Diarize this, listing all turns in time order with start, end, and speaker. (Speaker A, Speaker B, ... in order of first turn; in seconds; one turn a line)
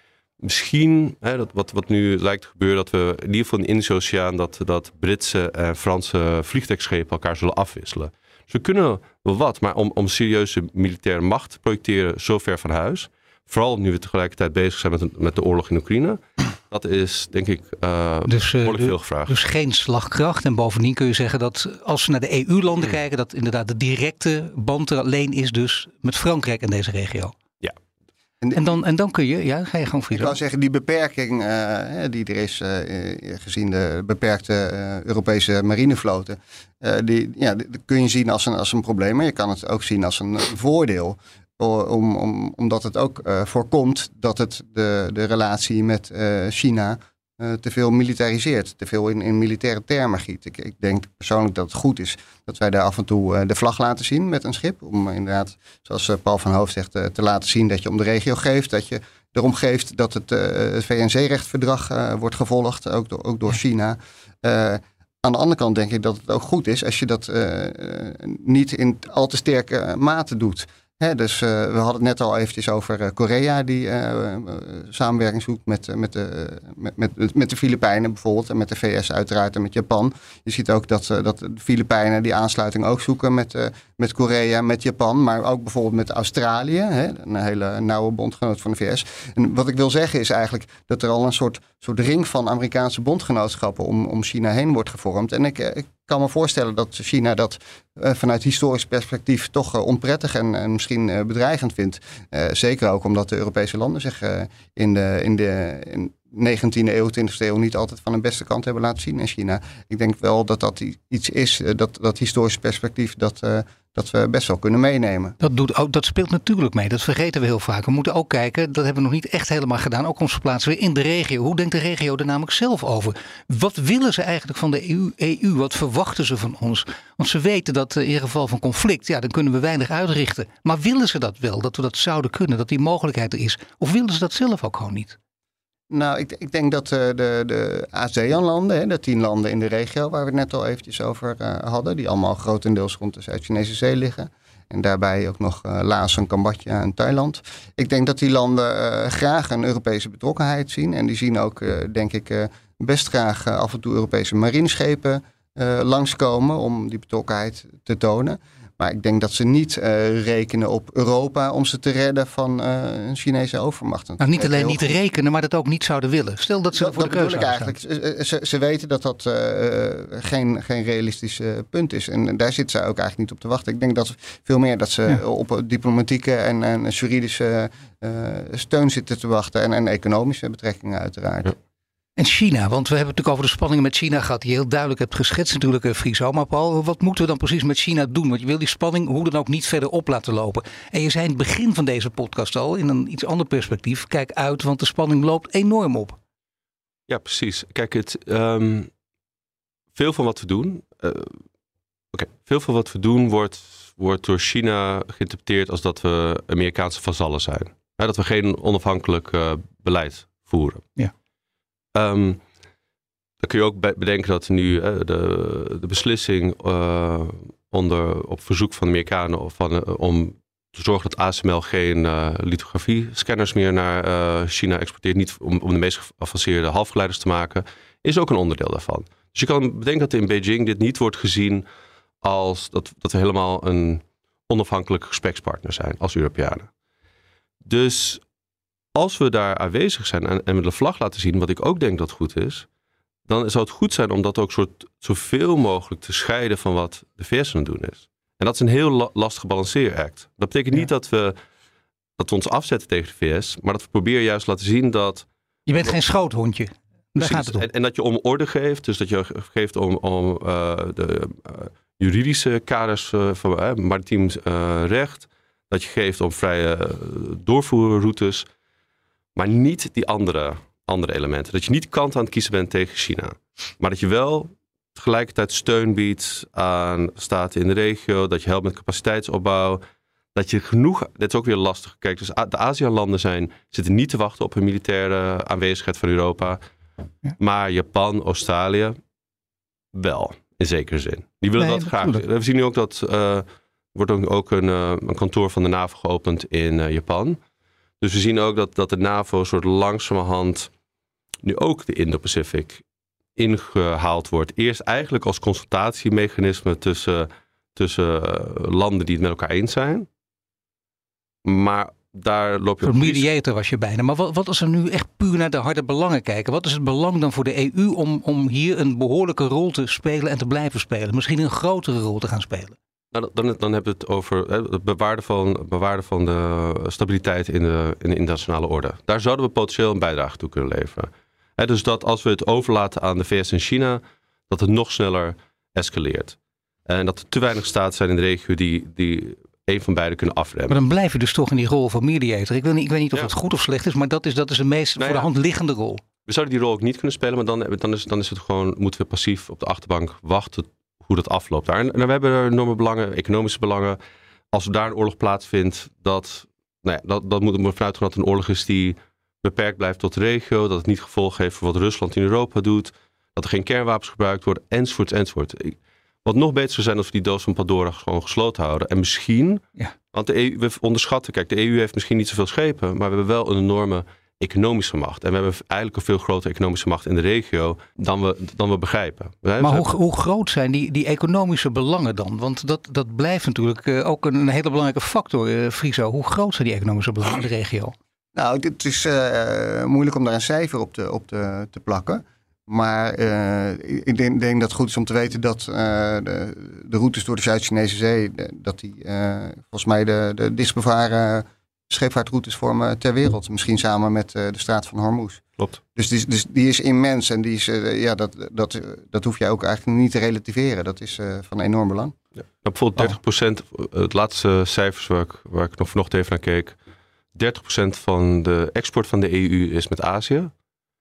Speaker A: 0.4-19.4
Speaker B: 18.3-27.3
Speaker B: 28.5-30.3
Speaker C: 30.1-115.3
Speaker B: 115.4-135.2
Speaker C: 135.9-164.9
Speaker B: 164.2-167.8
Speaker C: 166.7-181.5
Speaker B: 182.2-196.2
Speaker A: 197.1-198.9
Speaker A: 199.9-201.4
Speaker A: 202.1-210.9
Speaker A: 211.9-212.4
Speaker A: 213.4-231.6
Speaker A: 232.2-236.7
Speaker A: 237.6-238.2
Speaker A: 238.9-242.7
Speaker A: 243.3-251.3
Speaker A: 252.2-255.2
Speaker B: 255.7-257.6
Speaker A: 257.2-268.4
Speaker A: 269.4-279.8
Speaker A: 280.3-286.6
Speaker A: 287.4-289.0
Speaker A: 289.9-297.4
Speaker B: 291.6-292.2
Speaker A: 298.0-300.7
Speaker A: 301.4-302.8
Speaker A: 303.4-310.1
Speaker A: 311.4-313.2
Speaker B: 312.8-322.8
Speaker A: 323.1-340.8
Speaker B: 340.7-346.0
Speaker A: 345.0-345.3
Speaker A: 346.2-354.0
Speaker A: 354.5-379.9
Speaker B: 379.6-387.9
Speaker C: 388.3-405.4
Speaker C: 405.9-412.1
Speaker A: 412.6-416.8
Speaker A: 417.3-420.5